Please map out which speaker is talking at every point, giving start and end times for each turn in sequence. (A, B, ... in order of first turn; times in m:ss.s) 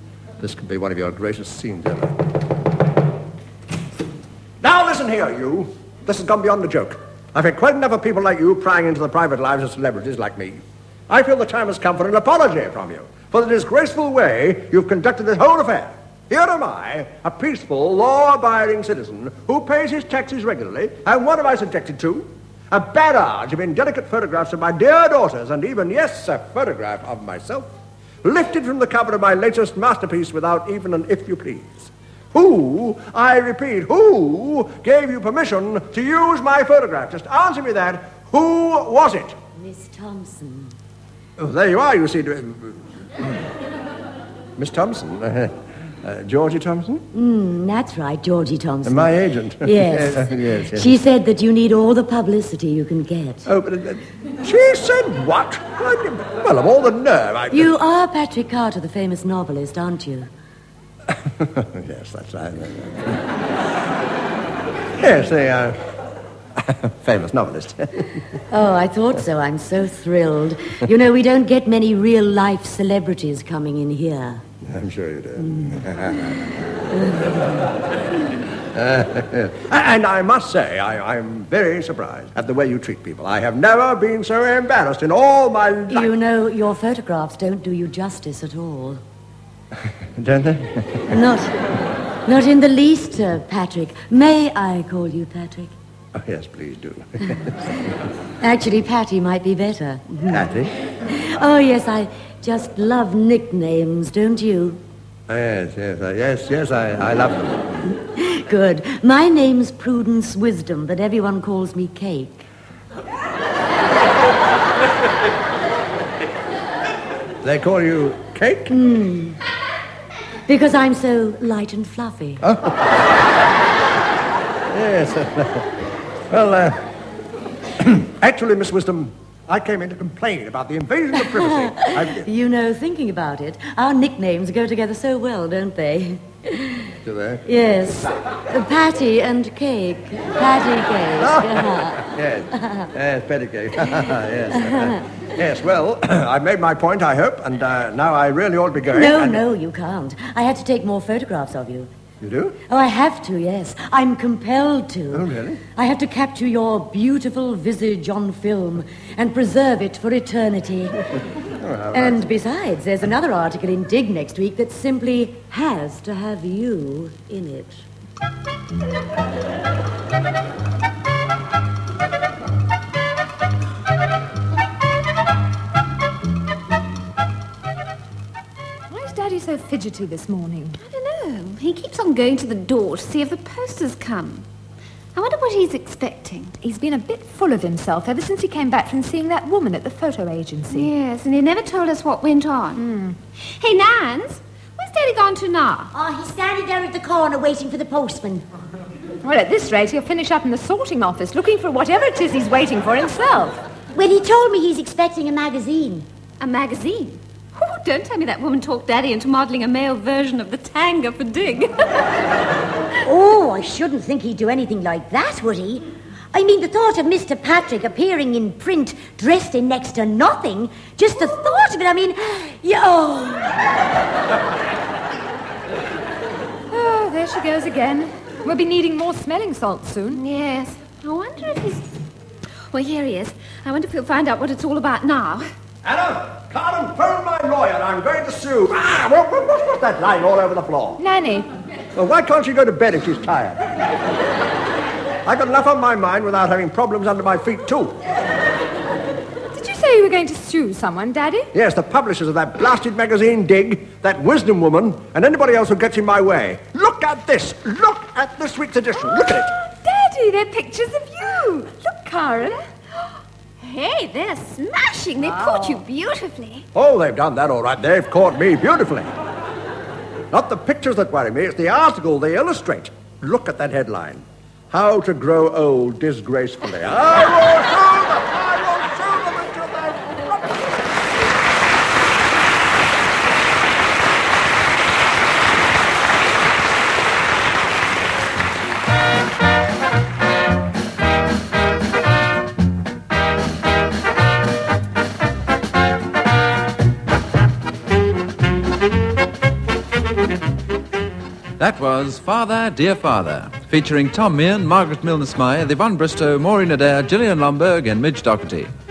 0:00.4-0:02.2 A
0:04.6-0:39.4 A
0:39.6-0:40.8 B
0:41.4-0:43.4 A
0:44.6-0:47.0 A
0:47.1-0:49.1 B
0:48.9-0:51.0 A
0:49.6-0:53.5 B
0:53.5-0:57.7 A
0:57.5-1:00.3 B
1:01.3-1:03.3 A
1:05.0-1:05.8 A
1:06.6-1:08.1 A
1:08.5-1:14.4 B
1:14.6-1:16.4 A
1:17.0-1:17.7 A
1:18.7-1:26.1 A
1:25.9-1:29.0 B
1:30.2-1:31.2 A
1:31.1-1:31.5 B
1:32.2-1:35.7 B
1:36.2-1:37.9 A
1:38.4-1:40.4 B
1:40.3-1:40.7 A
1:41.0-1:44.8 B
1:45.3-1:47.9 A
1:47.9-1:52.4 B
1:57.4-1:58.8 A
1:58.7-1:59.4 B
2:00.5-2:02.4 B
2:02.4-2:02.9 A
2:04.7-2:05.7 A
2:06.3-2:06.8 A
2:07.8-2:12.3 A
2:11.4-2:16.9 B
2:17.0-2:17.4 A
2:17.4-2:22.9 B
2:21.2-2:29.4 A
2:24.6-2:25.0 B
2:28.9-2:31.9 B
2:32.2-2:32.6 A
2:32.7-2:41.0 B
2:35.1-2:35.6 A
2:41.4-2:42.3 A
2:41.9-2:47.8 B
2:58.9-3:00.8 C
3:00.8-3:04.5 D
3:05.2-3:06.6 D
3:06.6-3:10.9 C
3:10.7-3:12.8 D
3:12.8-3:13.2 C
3:13.4-3:15.9 D
3:15.9-3:18.4 B
3:19.2-3:23.6 C
3:24.0-3:26.1 B
3:26.4-3:32.1 D
3:33.0-3:43.6 B
3:46.7-3:50.2 C
3:50.1-3:51.9 D
3:52.7-3:55.4 D
3:55.8-4:01.0 A
4:01.0-4:01.5 C
4:02.0-4:03.6 A
4:05.2-4:08.0 A
4:09.5-4:11.5 C
4:11.5-4:19.5 A
4:19.0-4:22.6 C
4:23.6-4:26.7 D
4:25.2-4:25.8 C
4:26.7-4:29.1 A
4:30.3-4:41.0 A
5:01.6-5:08.7 E